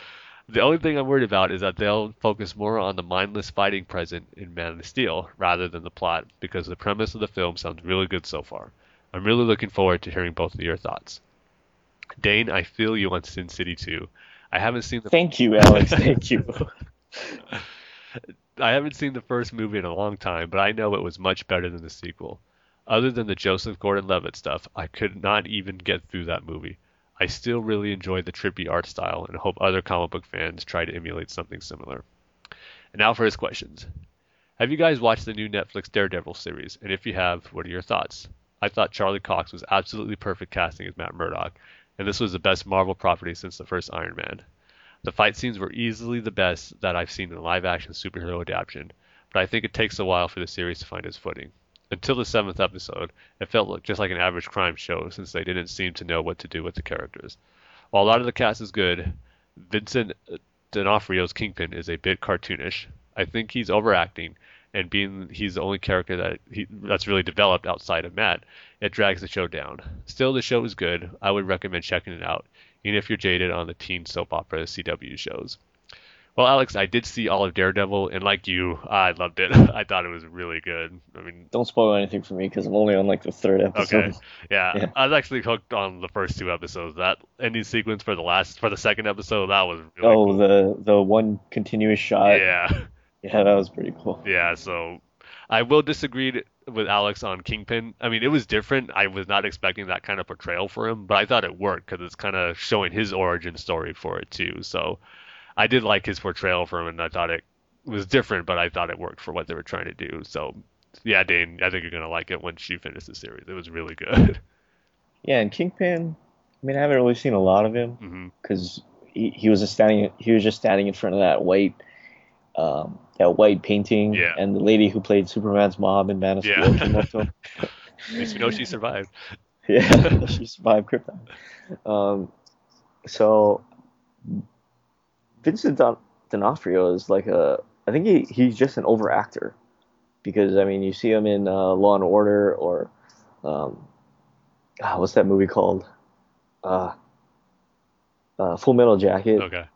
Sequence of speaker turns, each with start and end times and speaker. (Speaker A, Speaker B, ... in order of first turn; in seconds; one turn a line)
Speaker A: 0.5-11.2
Speaker A: 12.2-16.2
Speaker B: 15.1-17.4
Speaker A: 18.6-32.0
Speaker A: 32.9-33.9
Speaker A: 34.6-44.4
Speaker A: 45.0-57.4
Speaker A: 57.9-75.6
Speaker A: 76.3-81.5
Speaker B: 81.5-84.2
Speaker A: 83.7-90.4
Speaker B: 90.0-92.5
Speaker A: 92.2-92.8
Speaker B: 93.2-94.2
Speaker A: 94.2-105.0
Speaker A: 105.6-114.4
Speaker B: 115.2-121.8
Speaker A: 118.0-118.3
Speaker B: 122.5-128.3
Speaker A: 124.1-124.4
Speaker A: 126.4-127.2
Speaker A: 128.1-129.1
Speaker B: 129.7-131.3
Speaker A: 129.9-130.3
Speaker B: 131.8-132.3
Speaker B: 133.0-133.6
Speaker B: 135.4-139.6
Speaker B: 140.2-142.9
Speaker B: 143.4-143.8
Speaker B: 144.8-145.9
Speaker B: 146.6-147.0
Speaker B: 148.4-149.5
Speaker A: 149.4-149.7